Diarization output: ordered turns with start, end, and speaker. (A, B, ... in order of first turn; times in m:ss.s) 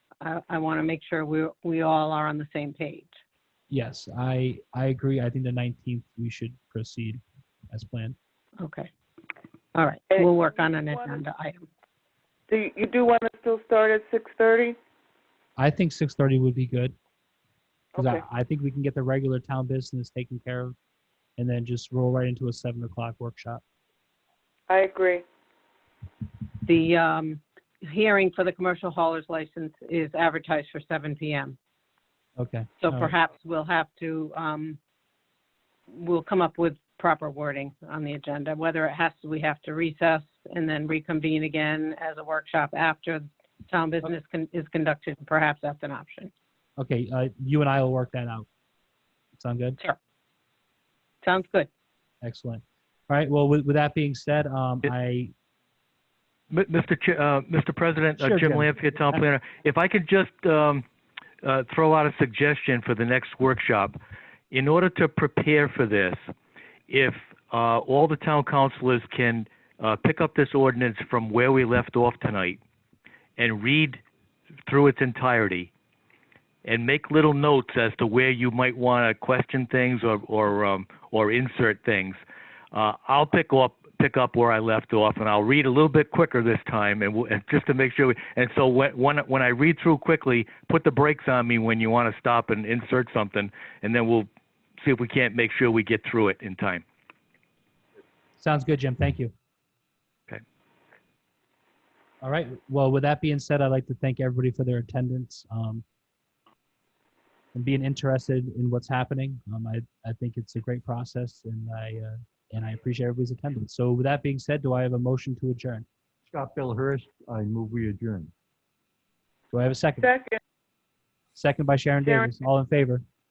0:00.2-0:03.2 A
0:03.7-0:07.2 B
0:07.7-0:08.2 B
0:08.6-0:08.9 A
0:09.7-0:11.7 A
0:10.1-0:11.2 C
0:12.5-0:14.8 C
0:15.6-0:16.9 B
0:17.9-0:18.2 C
0:18.0-0:20.7 B
0:21.4-0:23.6 B
0:24.7-0:25.2 C
0:26.6-0:31.6 A
0:32.4-0:33.1 B
0:32.8-0:34.8 A
0:35.9-0:46.3 A
0:46.8-0:48.5 B
0:49.4-0:49.8 B
0:51.2-0:51.7 A
0:52.2-0:55.3 B
0:56.5-1:00.8 D
0:58.2-0:59.2 B
1:01.4-1:04.0 D
1:04.5-1:06.2 D
1:06.9-1:12.6 D
1:13.4-1:14.0 D
1:14.7-1:15.7 D
1:16.6-1:22.2 D
1:22.7-1:34.3 D
1:34.8-1:36.8 D
1:38.4-1:39.3 B
1:42.2-1:45.8 B
1:47.5-1:55.8 B
1:56.3-1:58.3 E
1:59.5-2:00.1 B
2:00.0-2:00.4 C
2:01.4-2:03.0 B
2:02.0-2:02.3 C